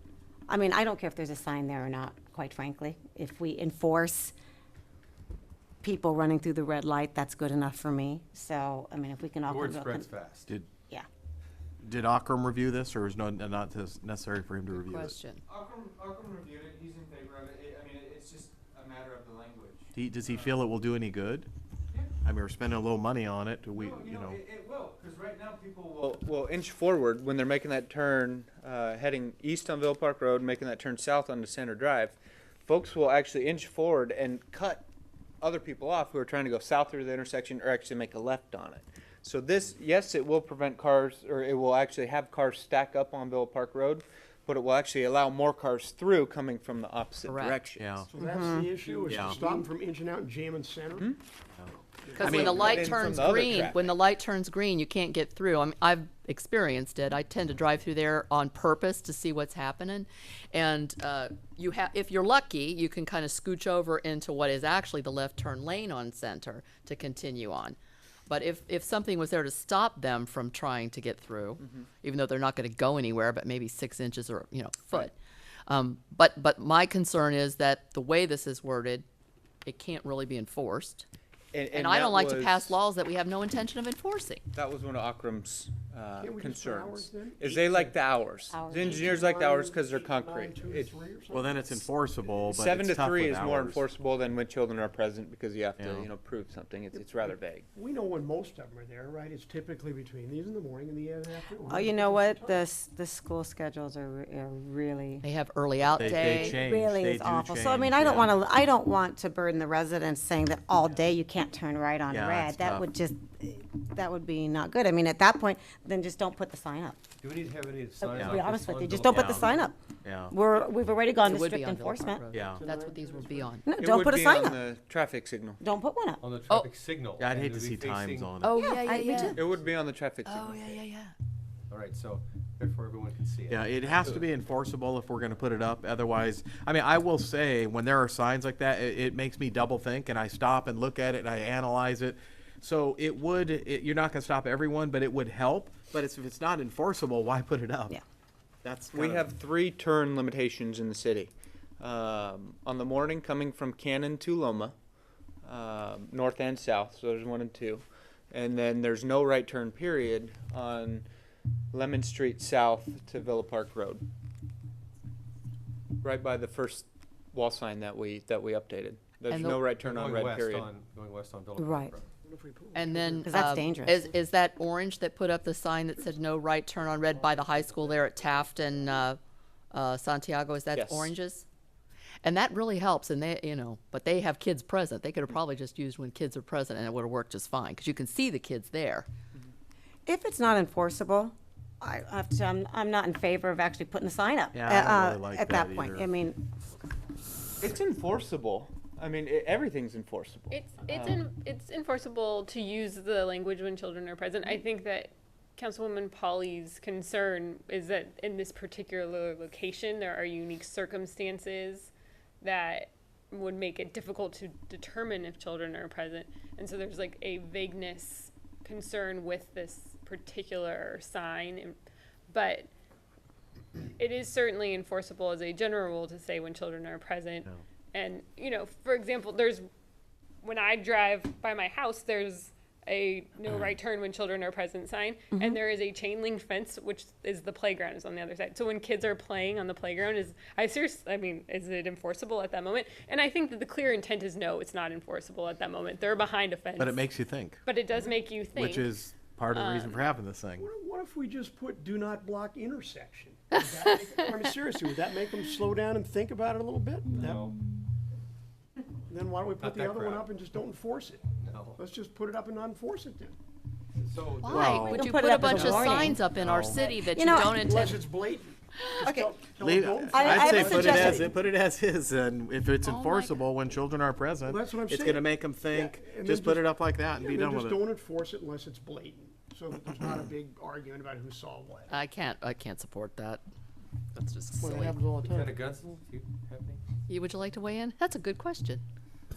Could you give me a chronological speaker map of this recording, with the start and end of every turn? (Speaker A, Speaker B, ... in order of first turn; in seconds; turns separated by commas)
Speaker A: 0.5-4.3, Speaker A: 5.8-10.1, Speaker B: 9.4-10.5, Speaker C: 11.8-15.1, Speaker D: 14.7-15.4, Speaker E: 15.4-20.5, Speaker C: 19.9-21.5, Speaker C: 22.2-24.4, Speaker E: 23.8-34.9, Speaker E: 35.4-48.1, Speaker D: 47.2-47.6, Speaker C: 47.8-48.1, Speaker F: 48.1-51.1, Speaker A: 48.2-48.7, Speaker C: 49.1-49.4, Speaker C: 51.6-52.7, Speaker F: 52.0-53.1, Speaker D: 52.2-67.8, Speaker E: 52.3-53.9, Speaker D: 68.3-75.1, Speaker E: 71.6-71.9, Speaker D: 75.7-79.0, Speaker D: 79.6-81.0, Speaker E: 81.5-82.8, Speaker D: 81.7-84.4, Speaker E: 84.5-91.0, Speaker F: 86.2-88.0, Speaker A: 88.5-89.2, Speaker F: 88.7-91.8, Speaker C: 91.3-93.8, Speaker E: 92.5-97.7, Speaker C: 95.8-96.1, Speaker F: 96.9-102.6, Speaker A: 101.7-105.2, Speaker D: 105.2-106.6, Speaker A: 105.9-117.0, Speaker C: 106.0-108.3, Speaker C: 112.1-112.8, Speaker B: 117.2-119.7, Speaker A: 118.0-119.8, Speaker C: 118.2-118.4, Speaker C: 119.0-119.5, Speaker C: 120.0-120.3, Speaker A: 120.3-122.2, Speaker D: 121.2-123.6, Speaker C: 122.3-122.6, Speaker F: 122.6-123.6, Speaker A: 123.6-124.6, Speaker E: 123.8-125.6, Speaker A: 125.6-126.2, Speaker B: 126.2-128.4, Speaker C: 127.2-128.6, Speaker D: 128.4-129.4, Speaker A: 128.6-129.4, Speaker E: 129.3-130.8, Speaker B: 129.5-129.8, Speaker D: 130.2-131.1, Speaker B: 131.7-134.3, Speaker C: 133.5-147.9, Speaker C: 148.6-149.2, Speaker E: 148.9-154.7, Speaker E: 155.4-161.1, Speaker E: 161.7-164.0, Speaker E: 166.0-170.7, Speaker D: 169.3-169.6, Speaker B: 169.7-172.2, Speaker A: 171.6-171.9, Speaker F: 172.2-173.3, Speaker D: 172.7-179.2, Speaker A: 173.2-174.0, Speaker B: 177.0-178.9, Speaker D: 179.7-181.4, Speaker E: 180.7-181.1, Speaker D: 182.2-189.1, Speaker A: 190.1-196.4, Speaker C: 194.5-196.1, Speaker E: 197.6-201.2, Speaker G: 200.5-211.9, Speaker G: 212.4-221.8, Speaker G: 222.3-222.7, Speaker G: 224.0-229.6, Speaker G: 230.4-247.0, Speaker A: 235.3-235.6, Speaker C: 246.8-247.6, Speaker G: 247.7-248.9, Speaker C: 248.5-250.7, Speaker G: 249.5-250.0, Speaker F: 250.6-257.5, Speaker B: 257.1-257.6, Speaker F: 259.1-263.4, Speaker B: 259.6-260.3, Speaker B: 261.4-261.8, Speaker B: 263.9-265.3, Speaker D: 264.4-268.0, Speaker C: 264.5-266.8, Speaker A: 264.6-266.2, Speaker F: 265.5-266.1, Speaker F: 266.7-271.3, Speaker A: 266.9-267.5, Speaker A: 269.0-269.3, Speaker C: 269.6-277.8, Speaker A: 270.1-271.3, Speaker D: 272.8-273.4, Speaker F: 274.4-282.0, Speaker D: 281.9-283.4, Speaker D: 284.1-285.0, Speaker F: 284.6-285.6, Speaker B: 285.2-286.8, Speaker D: 287.1-288.8